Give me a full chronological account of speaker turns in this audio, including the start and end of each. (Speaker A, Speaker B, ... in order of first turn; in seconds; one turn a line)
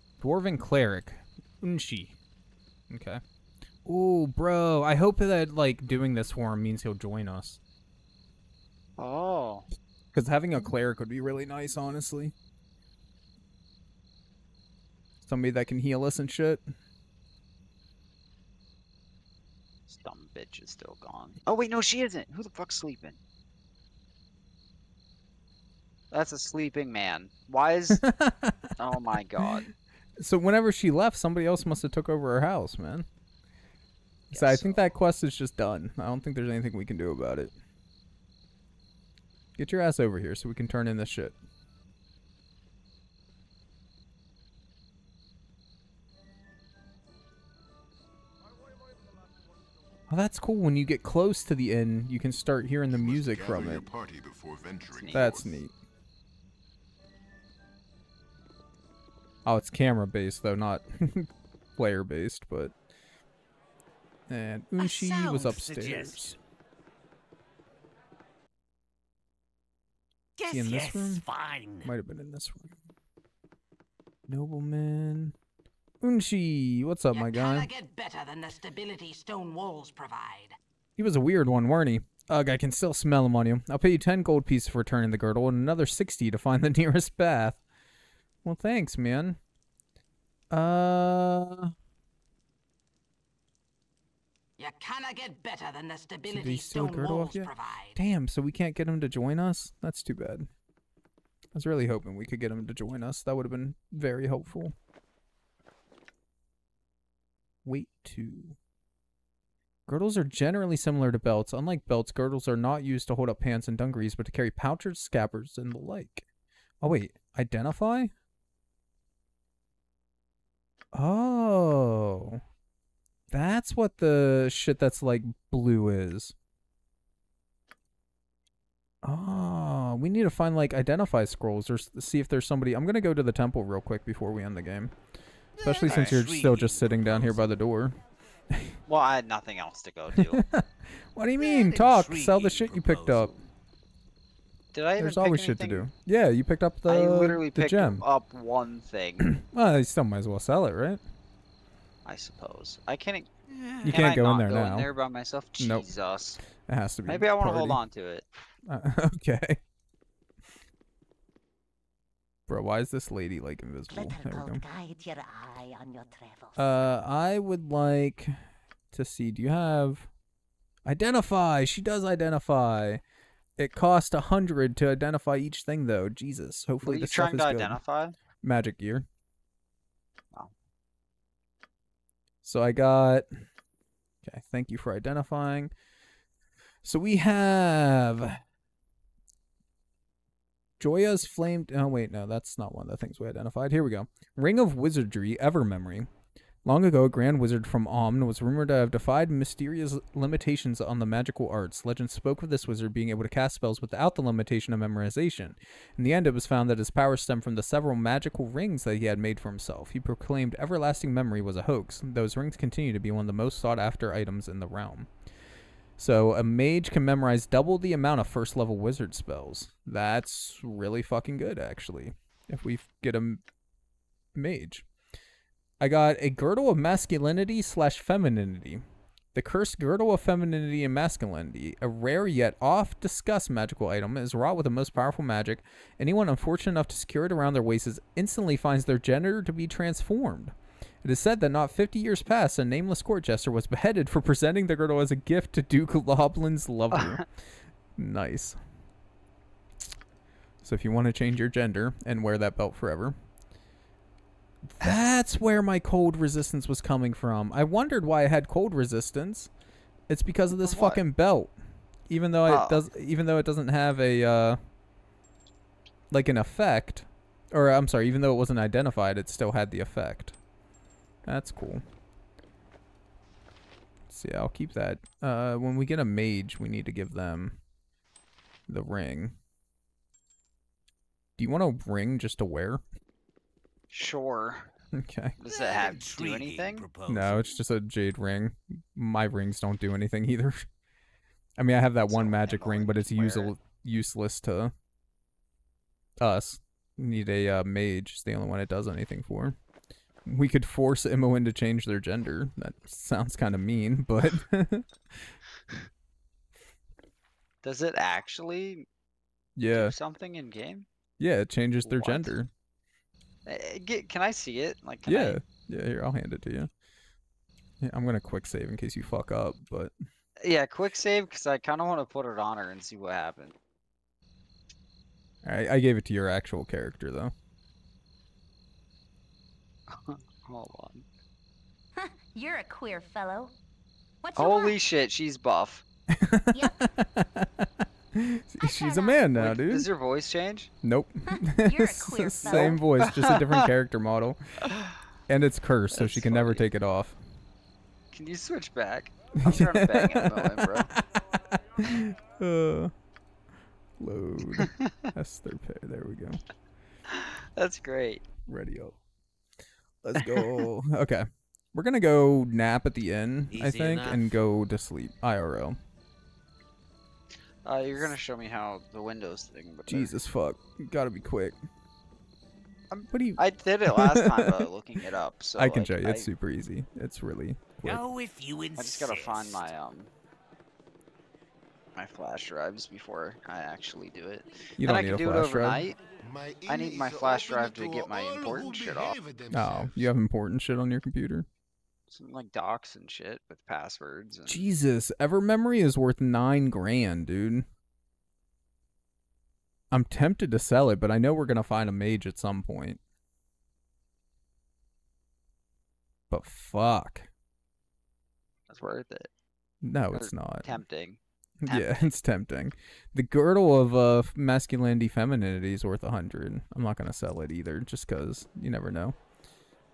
Speaker A: 0.2-2.2
Speaker A: 2.9-3.2
Speaker A: 3.8-7.6
Speaker B: 9.0-9.7
Speaker A: 10.1-12.3
Speaker A: 15.2-16.6
Speaker B: 19.9-23.2
Speaker B: 26.1-28.0
Speaker A: 28.0-28.7
Speaker B: 28.8-29.7
Speaker A: 30.2-33.1
Speaker A: 34.3-37.5
Speaker B: 34.3-34.8
Speaker A: 39.5-41.3
Speaker A: 50.1-53.9
Speaker C: 52.9-55.6
Speaker B: 54.9-55.4
Speaker A: 55.1-55.7
Speaker A: 59.4-62.7
Speaker A: 64.3-66.3
Speaker D: 64.8-66.4
Speaker D: 70.4-71.9
Speaker A: 70.5-71.2
Speaker A: 71.8-72.8
Speaker A: 74.3-75.3
Speaker A: 76.0-77.7
Speaker E: 77.1-80.5
Speaker A: 81.0-87.6
Speaker A: 88.4-89.4
Speaker A: 90.5-91.7
Speaker E: 94.6-98.0
Speaker A: 96.3-100.5
Speaker A: 101.5-104.7
Speaker A: 107.6-108.6
Speaker A: 109.9-116.3
Speaker A: 116.8-118.1
Speaker A: 120.9-122.4
Speaker A: 123.3-126.3
Speaker A: 129.0-134.9
Speaker D: 135.6-137.5
Speaker A: 135.6-138.0
Speaker B: 135.8-136.2
Speaker B: 138.9-140.4
Speaker A: 140.2-143.3
Speaker D: 141.4-143.4
Speaker B: 144.7-145.9
Speaker A: 145.0-148.0
Speaker B: 146.9-149.3
Speaker A: 149.2-151.0
Speaker B: 152.1-153.3
Speaker D: 153.5-154.1
Speaker B: 153.8-156.4
Speaker A: 153.8-154.9
Speaker A: 155.6-155.9
Speaker A: 156.5-157.8
Speaker B: 157.1-158.2
Speaker A: 158.7-159.6
Speaker A: 162.5-164.6
Speaker F: 163.9-166.7
Speaker A: 166.6-168.3
Speaker A: 168.9-170.1
Speaker A: 170.8-173.0
Speaker A: 173.6-177.8
Speaker B: 176.8-178.2
Speaker A: 178.4-179.1
Speaker A: 182.4-183.3
Speaker A: 184.2-185.7
Speaker A: 186.8-188.4
Speaker A: 190.8-196.1
Speaker A: 196.6-215.1
Speaker A: 216.0-223.4
Speaker A: 224.3-224.8
Speaker A: 225.8-228.8
Speaker A: 229.3-247.3
Speaker B: 246.9-247.2
Speaker A: 247.9-248.6
Speaker A: 250.6-253.2
Speaker A: 254.7-259.5
Speaker B: 254.8-255.1
Speaker A: 260.1-261.5
Speaker B: 260.6-261.0
Speaker A: 262.1-264.6
Speaker B: 262.5-262.8
Speaker A: 266.1-270.4
Speaker A: 271.2-271.8
Speaker A: 274.1-277.6
Speaker A: 278.7-279.4
Speaker A: 281.4-282.8
Speaker B: 283.9-284.7
Speaker A: 285.0-285.4
Speaker B: 285.4-286.9
Speaker D: 285.5-287.6
Speaker A: 287.1-290.6
Speaker A: 291.6-294.7
Speaker B: 292.1-293.5
Speaker A: 296.2-299.6
Speaker A: 300.2-305.4
Speaker B: 307.6-308.9
Speaker A: 309.6-309.9
Speaker B: 309.7-310.9
Speaker A: 311.2-312.5
Speaker B: 311.8-312.3
Speaker B: 313.4-315.4
Speaker A: 315.1-316.7
Speaker A: 317.8-319.9
Speaker B: 320.4-323.5
Speaker A: 325.4-327.3
Speaker B: 329.9-331.1
Speaker F: 332.0-333.5
Speaker F: 334.2-334.8
Speaker B: 334.4-335.8
Speaker A: 336.1-339.9
Speaker F: 336.5-336.8
Speaker F: 338.6-339.2
Speaker B: 339.4-340.7
Speaker A: 340.8-344.4
Speaker F: 341.3-342.8
Speaker B: 342.4-343.7
Speaker B: 344.6-344.9
Speaker A: 345.3-347.2
Speaker B: 345.9-346.7
Speaker B: 348.1-350.9
Speaker A: 349.4-351.2
Speaker A: 351.8-352.9
Speaker A: 354.0-356.4
Speaker B: 354.6-355.1
Speaker B: 357.1-358.2
Speaker A: 358.5-359.0
Speaker A: 360.0-365.8
Speaker D: 363.5-364.3
Speaker B: 367.6-370.1
Speaker A: 369.9-371.6
Speaker B: 372.9-376.3
Speaker A: 373.1-374.7
Speaker A: 375.6-378.0
Speaker D: 377.8-379.7
Speaker B: 378.8-380.1
Speaker B: 381.9-386.0
Speaker A: 384.8-385.8
Speaker C: 386.2-390.1
Speaker B: 386.7-389.2
Speaker A: 389.5-391.5
Speaker B: 392.1-394.6
Speaker A: 394.5-397.7
Speaker A: 399.9-403.0
Speaker A: 406.3-407.3
Speaker B: 408.7-409.3
Speaker A: 409.8-410.8
Speaker B: 410.1-412.1
Speaker A: 411.6-419.1